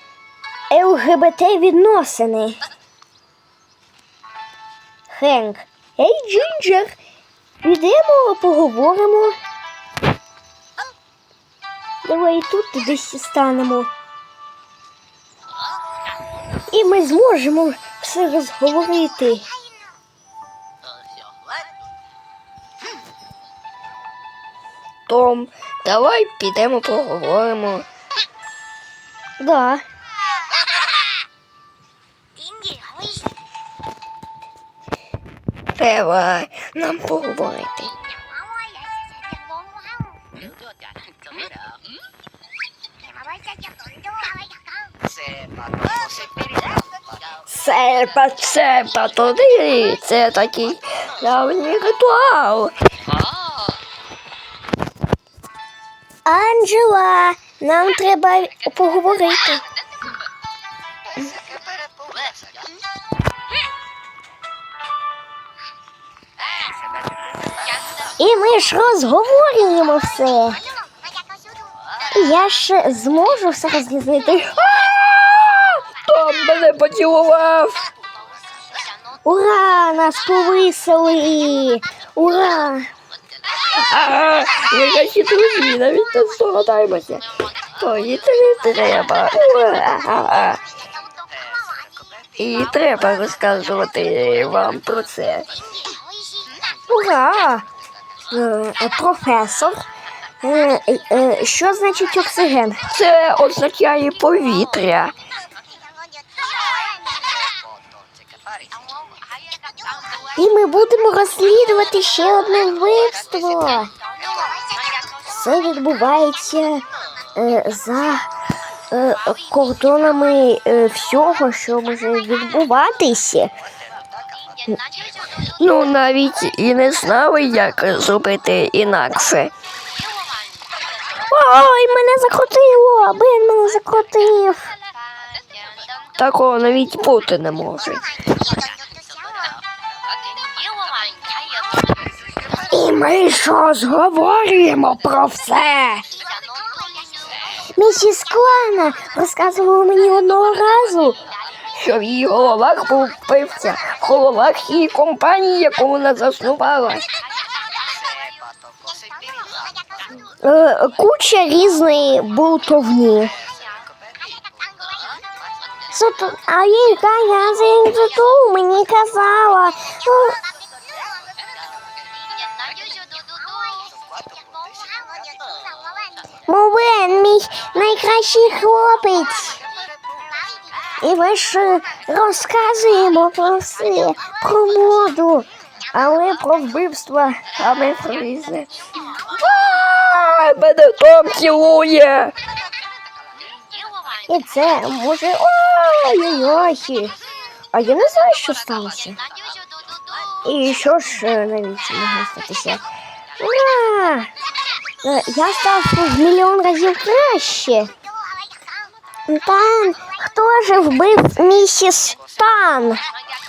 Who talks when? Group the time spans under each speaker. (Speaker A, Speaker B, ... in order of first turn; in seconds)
Speaker A: 0.7-2.6, 5.1-6.9, 7.6-9.3, 12.0-13.9, 16.7-19.5, 29.4-29.8, 32.6-33.1, 47.5-48.0, 56.2-59.6, 68.2-70.6, 72.1-74.7, 79.2-82.9, 96.9-97.6, 98.3-99.8, 100.4-102.8, 110.3-113.9, 115.2-116.8, 117.3-118.2, 118.9-123.5, 131.3-134.7, 142.7-146.0, 147.8-151.2, 160.4-163.3, 165.9-170.3, 176.5-179.6, 181.0-187.5, 194.3-197.1, 197.7-199.2, 200.4-202.8, 203.4-204.3, 205.0-207.9, 209.3-213.0
Speaker B: 25.1-27.9, 35.8-37.9, 47.6-52.7, 74.7-77.9, 83.8-87.2, 87.8-90.6, 92.4-95.5, 102.9-105.1, 125.6-129.5, 136.2-138.0, 151.7-157.0, 187.6-188.7, 189.3-192.3